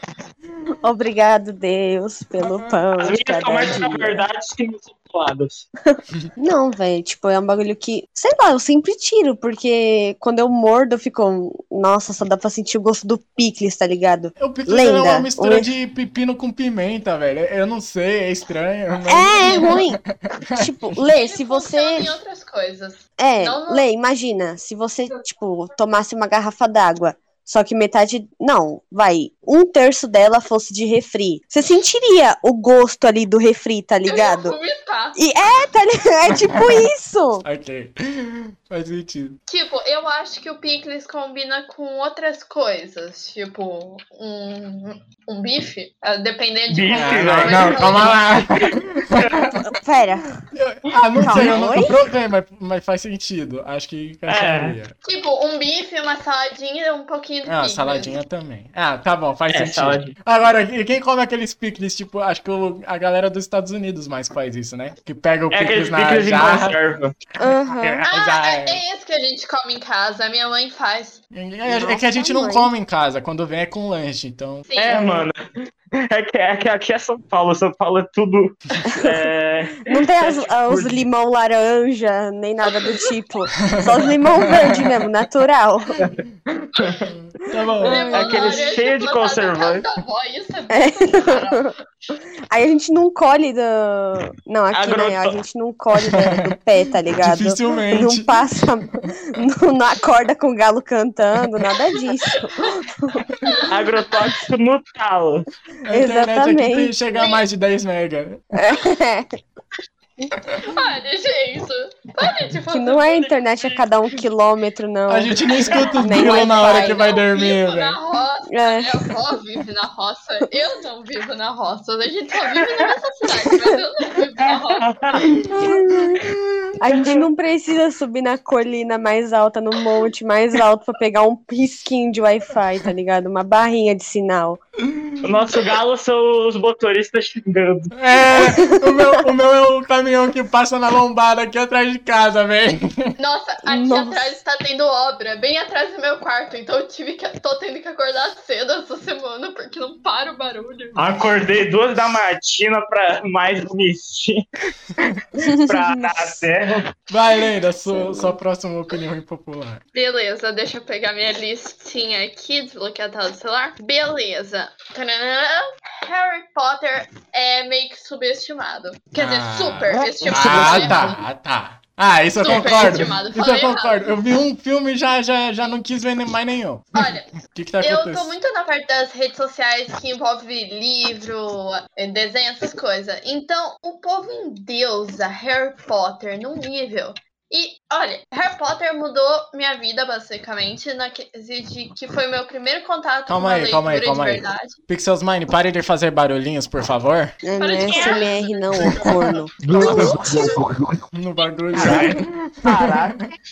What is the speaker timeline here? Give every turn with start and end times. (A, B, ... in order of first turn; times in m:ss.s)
0:00.8-0:04.2 A
0:02.4-0:02.7 B
0:03.0-0:05.7 C
0:06.0-0:15.7 A
0:14.4-0:20.7 B
0:19.1-0:20.0 A
0:19.4-0:19.8 D
0:20.5-0:22.2 A
0:21.1-0:23.8 D
0:23.2-0:34.6 A
0:34.0-0:35.2 D
0:35.1-0:37.4 A
0:36.3-0:36.9 B
0:37.4-0:39.4 B
0:39.5-0:48.2 D
0:46.7-0:49.5 C
0:46.9-0:49.5 B
0:49.6-0:50.4 A
0:50.5-0:54.9 B
0:51.2-0:52.0 A
0:51.2-0:51.6 C
0:54.3-0:54.8 C
0:55.0-0:58.2 D
0:57.4-1:06.8 B
0:59.5-1:00.1 C
1:05.5-1:07.1 C
1:07.4-1:08.0 A
1:07.4-1:08.8 B
1:08.1-1:11.2 D
1:11.3-1:14.7 B
1:11.6-1:12.7 A
1:14.7-1:15.1 D
1:14.8-1:15.4 C
1:14.9-1:15.2 A
1:15.9-1:21.0 C
1:18.9-1:19.2 A
1:19.8-1:26.0 A
1:23.7-1:24.9 B
1:26.0-1:27.1 C
1:27.1-1:28.1 B
1:27.8-1:28.8 A
1:27.8-1:31.8 D
1:28.1-1:29.8 C
1:30.7-1:31.7 A
1:32.5-1:43.3 A
1:34.7-1:35.4 C
1:36.0-1:36.6 B
1:37.1-1:38.5 B
1:43.4-1:43.7 D
1:43.7-1:45.5 C
1:45.8-1:48.5 B
1:45.9-1:46.9 A
1:47.1-1:47.4 D
1:48.5-1:49.3 A
1:50.6-1:53.4 D
1:52.7-1:57.1 A
1:55.1-1:58.0 B
1:56.1-2:04.8 D
1:58.5-1:59.2 A
2:04.4-2:05.3 C
2:05.3-2:06.4 B
2:05.6-2:06.2 A
2:06.8-2:14.6 A
2:06.9-2:07.2 C
2:15.2-2:17.9 C
2:17.9-2:23.1 B
2:18.3-2:19.2 A
2:23.2-2:31.0 D
2:23.6-2:24.4 A
2:31.0-2:34.4 C
2:35.3-2:36.8 C
2:35.4-2:36.4 A
2:37.1-2:39.8 B
2:37.8-2:38.4 A
2:39.9-2:51.2 D
2:49.2-2:58.3 B
2:49.9-2:51.1 C
2:52.4-2:54.1 D
2:52.5-2:53.0 C
2:56.9-3:14.8 D
3:13.3-3:17.4 B
3:17.4-3:20.5 A
3:17.6-3:19.1 D
3:17.8-3:18.4 C
3:19.6-3:20.9 C
3:19.8-3:20.6 D
3:21.1-3:23.2 B
3:21.7-3:23.3 C